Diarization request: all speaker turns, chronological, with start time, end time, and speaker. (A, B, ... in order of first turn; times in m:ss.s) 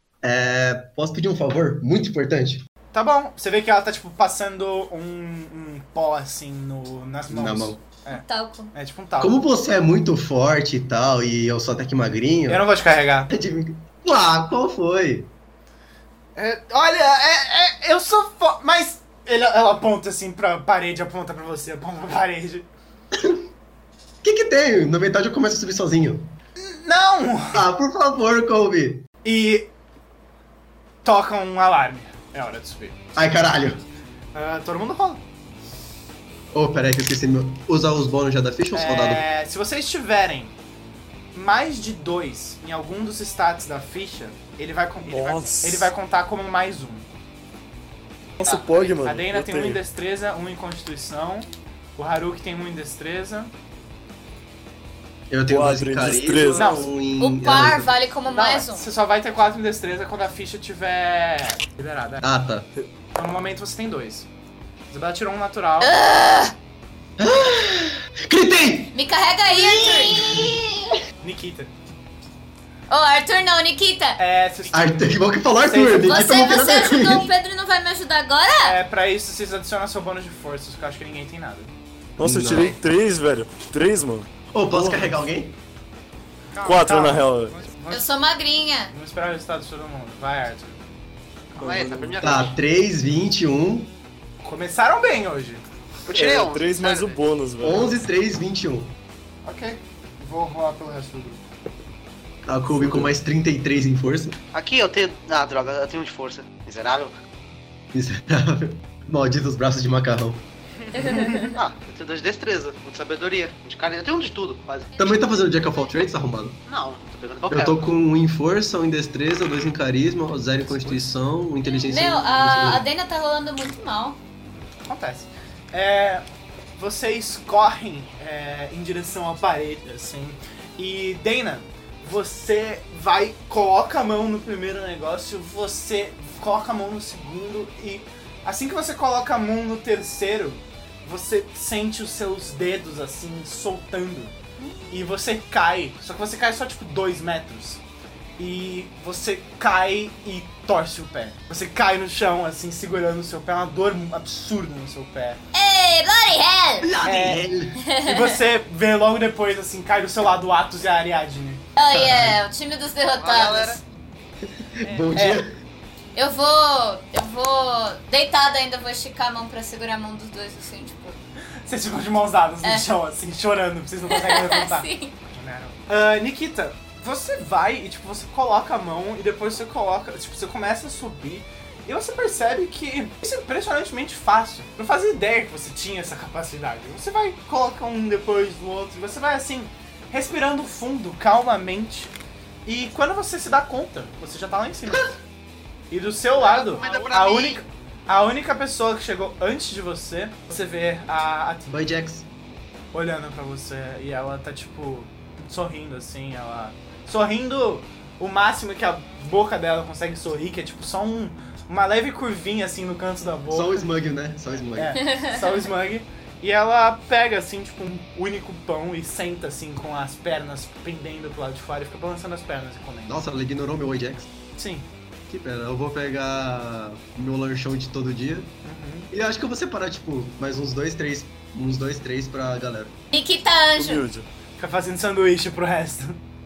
0:00.2-0:02.6 A
0:02.9-0:09.4 B
0:07.3-0:07.8 A
0:08.1-0:08.7 C
0:09.2-0:12.6 A
0:12.5-0:13.3 B
0:13.3-0:15.3 A
0:16.4-0:22.7 B
0:23.1-0:23.4 A
0:24.2-0:26.4 A
0:26.6-0:27.7 B
0:27.5-0:29.0 A
0:29.2-0:29.7 B
0:31.0-0:33.0 B
0:33.2-0:33.8 A
0:34.3-0:35.2 B
0:36.5-0:39.3 A
0:38.7-0:40.6 B
0:41.3-0:47.1 B
0:45.0-0:45.9 D
0:48.4-0:53.5 B
0:48.4-0:49.8 D
0:55.3-0:58.0 A
0:55.5-0:56.9 D
0:56.6-0:56.9 B
0:57.2-0:58.9 C
0:58.3-1:02.3 B
1:02.2-1:02.7 A
1:03.2-1:04.3 B
1:04.9-1:05.9 B
1:05.8-1:06.5 C
1:07.2-1:09.0 A
1:08.9-1:11.0 C
1:09.5-1:10.6 A
1:09.8-1:10.1 B
1:11.2-1:11.7 B
1:12.9-1:14.2 C
1:14.2-1:16.6 B
1:14.7-1:17.3 A
1:16.0-1:18.8 C
1:18.6-1:21.7 B
1:22.2-1:22.8 A
1:22.2-1:25.2 D
1:24.5-1:25.6 A
1:26.5-1:28.1 B
1:26.6-1:27.6 D
1:27.9-1:28.9 C
1:28.9-1:30.8 B
1:31.6-1:32.6 E
1:31.6-1:32.2 D
1:32.2-1:33.9 A
1:34.4-1:35.6 B
1:36.1-1:37.2 E
1:36.1-1:38.1 D
1:37.6-1:39.0 A
1:39.4-1:41.4 B
1:42.5-1:44.4 A
1:42.8-1:43.1 D
1:44.5-1:47.1 E
1:47.9-1:50.4 A
1:50.9-1:51.6 C
1:51.0-1:51.6 B
1:51.5-1:55.0 E
1:55.0-1:56.6 A
1:55.0-1:55.7 C
1:56.7-1:57.8 E
1:57.5-2:02.9 A
2:00.7-2:01.1 B
2:01.6-2:04.2 C
2:04.9-2:06.2 B
2:06.8-2:24.3 B
2:24.6-2:25.0 C
2:24.9-2:27.8 B
2:28.4-2:35.4 B
2:35.5-2:36.9 C
2:36.8-2:37.8 A
2:37.0-2:37.5 B
2:37.8-2:38.4 C
2:38.0-2:41.6 B
2:41.8-2:43.8 C
2:41.9-2:42.4 A
2:43.2-2:43.8 E
2:44.6-2:45.6 A
2:44.9-2:45.4 B
2:46.2-2:51.2 C
2:51.7-3:12.1 B
2:54.1-2:55.2 C
3:12.7-3:15.2 B
3:15.9-3:21.8 B
3:16.3-3:17.6 E
3:21.7-3:22.3 A
3:22.9-3:33.9 B
3:33.5-3:35.0 A
3:34.8-3:43.2 B
3:35.0-3:35.5 C
3:43.1-3:44.3 A
3:44.6-3:44.9 B
3:45.3-3:48.5 A
3:48.6-3:49.1 B
3:49.1-3:53.0 A
3:53.1-3:54.0 C
3:53.8-3:54.3 D
3:54.6-3:56.2 B